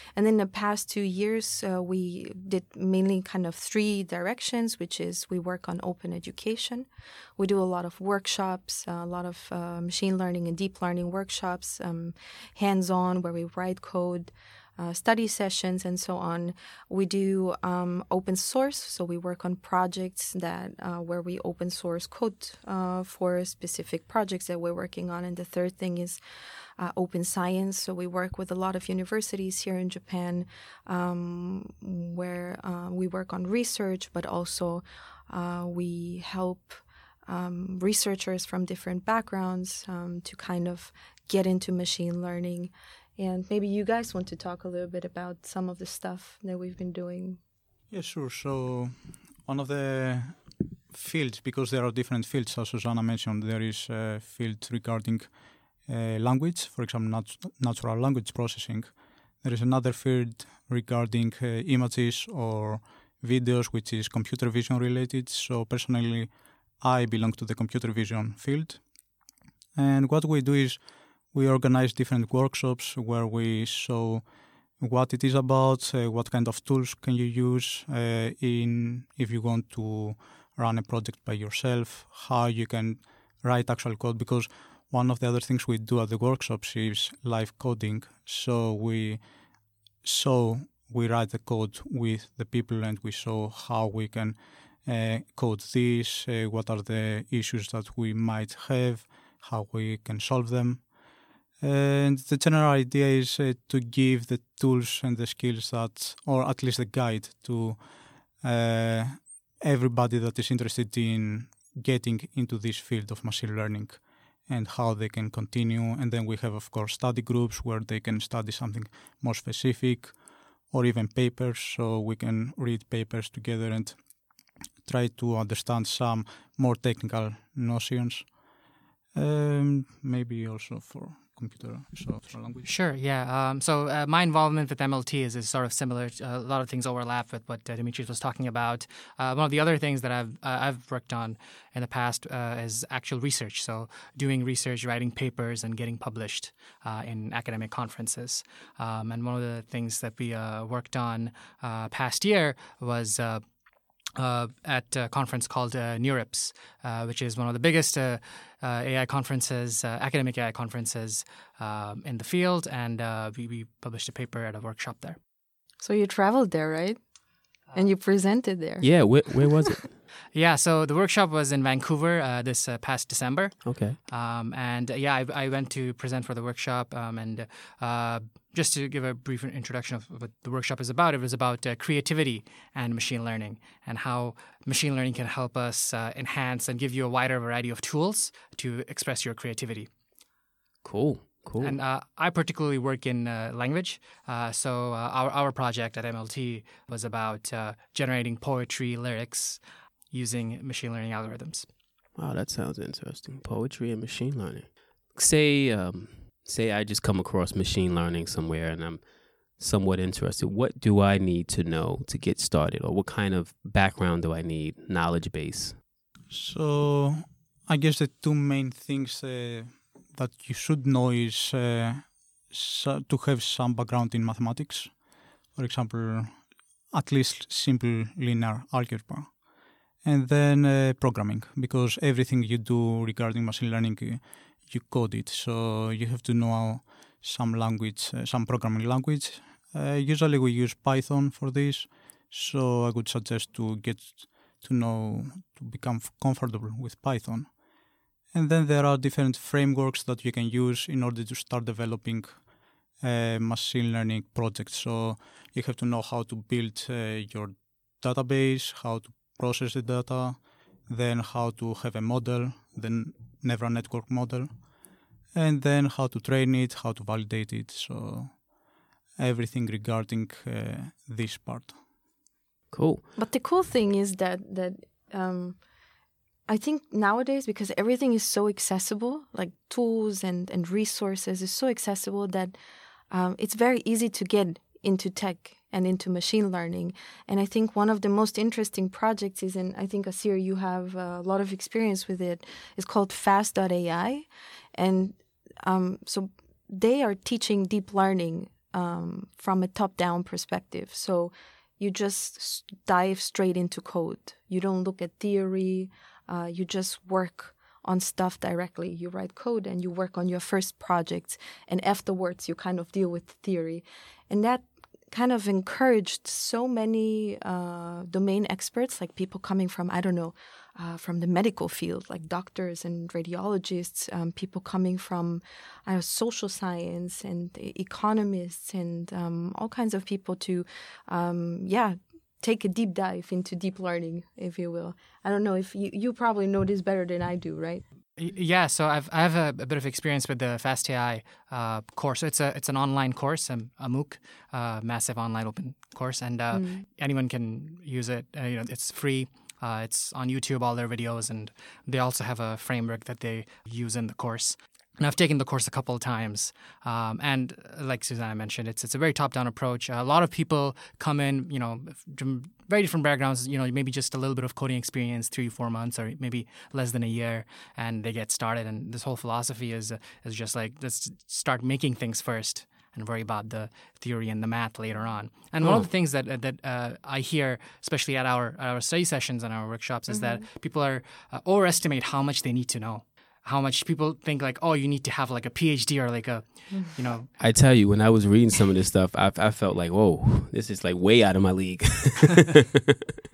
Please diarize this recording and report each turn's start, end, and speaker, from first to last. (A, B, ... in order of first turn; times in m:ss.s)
0:00.1-0:26.2 A
0:26.8-0:47.4 A
0:47.9-0:55.3 B
0:55.8-1:08.8 B
1:09.7-1:10.8 B
1:11.3-1:14.2 B
1:14.8-1:29.2 B
1:30.0-1:40.9 B
1:41.6-1:47.9 B
1:48.4-2:00.2 B
2:00.7-2:04.0 B
2:04.8-2:08.4 B
2:09.1-2:12.7 B
2:12.6-2:33.4 C
2:34.2-2:45.2 C
2:45.8-2:47.0 A
2:47.7-2:48.9 A
2:48.8-2:50.0 D
2:50.3-3:09.9 C
2:53.6-2:54.0 D
3:10.8-3:11.8 D
3:11.6-3:21.7 C
3:22.2-3:35.8 D
3:36.3-3:45.0 B
3:45.5-3:49.4 B
3:50.0-4:07.6 B
4:08.3-4:12.5 B
4:13.0-4:24.6 B
4:25.3-4:28.5 B
4:29.2-4:31.8 B
4:32.7-4:33.0 D
4:33.2-4:35.7 A
4:36.5-4:42.5 A
4:43.1-5:37.8 A
5:38.2-6:27.3 C
5:46.5-5:46.8 A
6:15.6-6:15.9 D
6:20.1-6:20.4 A
6:27.4-6:32.9 D